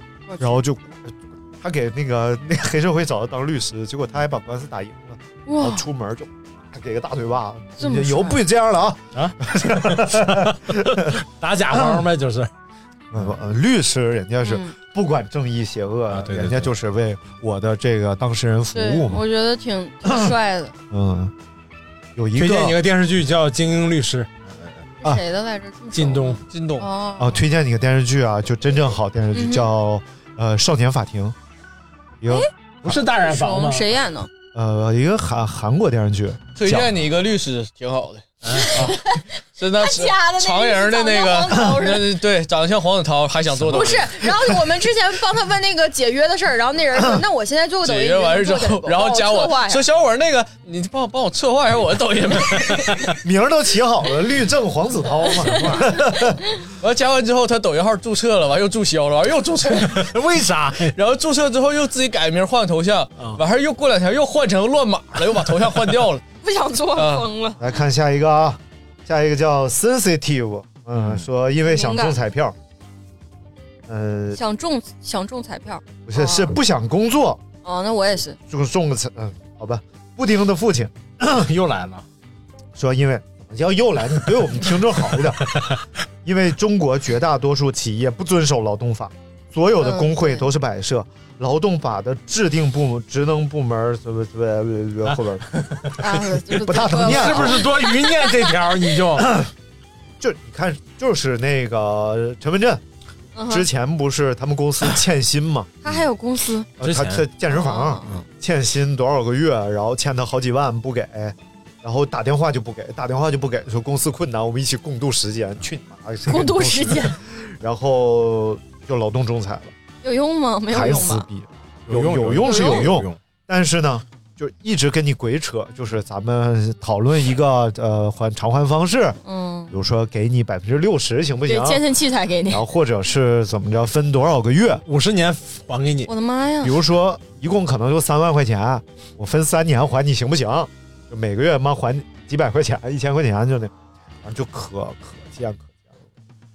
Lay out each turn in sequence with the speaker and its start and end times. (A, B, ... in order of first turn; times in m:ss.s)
0:00.3-0:00.6 A
0:00.4-0:11.1 B
0:05.4-0:05.8 A
0:07.8-0:08.4 A
0:09.1-0:12.5 C
0:11.7-0:12.0 B
0:13.1-0:19.2 B
0:14.4-0:14.7 A
0:16.1-0:16.7 C
0:18.7-0:20.8 A
0:20.0-0:20.3 B
0:20.9-0:21.3 B
0:22.2-0:22.8 B
0:22.4-0:24.9 C
0:25.0-0:27.4 A
0:25.9-0:26.4 C
0:26.5-0:26.9 D
0:27.2-0:31.4 B
0:29.3-0:29.7 A
0:32.2-0:33.0 B
0:32.8-0:33.9 C
0:33.2-0:34.3 A
0:34.5-0:36.9 B
0:36.6-0:39.0 D
0:38.4-0:38.7 C
0:38.5-0:42.1 A
0:39.6-0:44.1 D
0:43.7-0:49.8 A
0:47.8-0:53.0 D
0:53.2-0:56.4 B
0:56.8-1:00.1 D
0:59.8-1:01.0 C
1:00.9-1:06.2 D
1:06.4-1:07.6 A
1:07.0-1:07.3 D
1:07.6-1:12.6 B
1:11.0-1:11.2 C
1:11.6-1:12.2 A
1:13.9-1:14.4 B
1:14.3-1:16.6 A
1:16.0-1:17.4 B
1:17.6-1:18.4 A
1:18.5-1:21.4 B
1:21.3-1:22.0 C
1:22.8-1:25.6 B
1:25.5-1:25.8 C
1:26.2-1:35.5 B
1:29.8-1:30.5 A
1:35.1-1:36.0 C
1:36.0-1:38.7 A
1:36.5-1:39.5 C
1:36.6-1:37.6 B
1:39.2-1:39.5 B
1:40.2-1:42.8 B
1:43.3-1:43.7 A
1:43.5-1:45.8 B
1:45.8-1:46.7 A
1:46.8-1:59.7 B
1:46.8-1:47.2 C
1:47.5-1:48.1 A
1:56.2-1:57.2 A
2:00.0-2:01.3 A
2:00.7-2:09.2 B
2:01.9-2:03.2 C
2:02.4-2:02.9 A
2:09.2-2:09.7 A
2:09.7-2:11.8 B
2:11.5-2:12.6 A
2:12.5-2:14.8 B
2:14.9-2:16.1 C
2:16.0-2:16.8 A
2:16.6-2:26.1 B